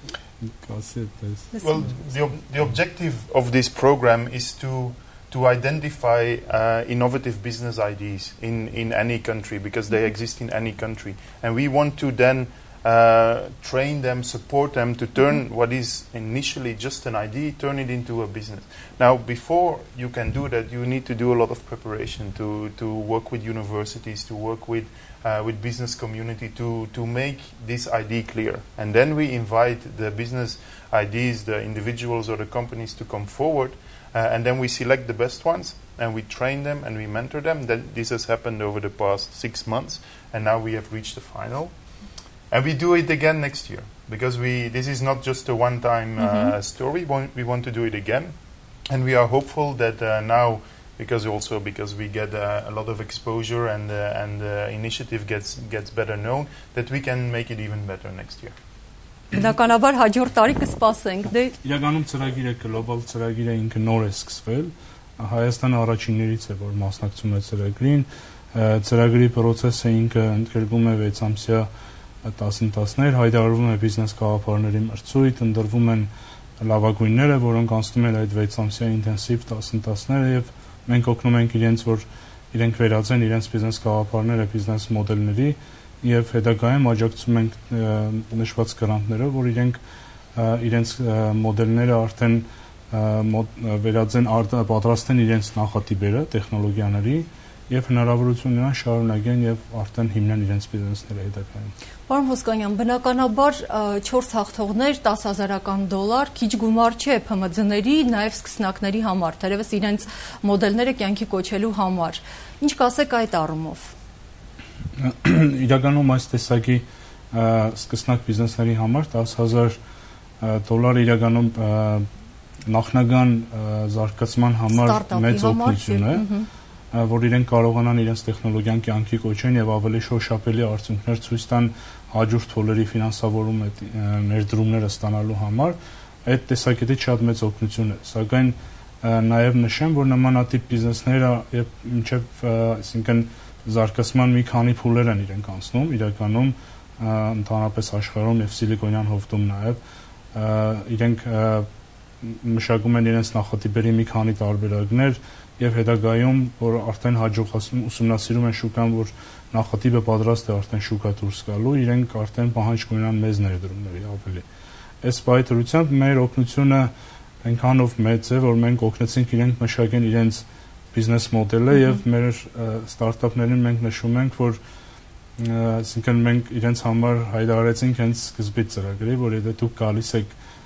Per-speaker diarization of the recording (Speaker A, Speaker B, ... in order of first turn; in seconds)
Speaker A: 0.4-1.5, 61.6-71.7, 72.2-89.8, 90.3-101.7, 115.0-119.8, 120.4-122.0, 122.7-126.2, 126.9-149.8, 150.3-151.7, 152.2-164.4, 165.0-166.9, 167.4-174.6, 175.4-180.3
Speaker B: 1.5-1.9, 46.2-46.5, 59.3-61.5, 102.1-113.9, 124.7-126.5
Speaker C: 1.6-58.5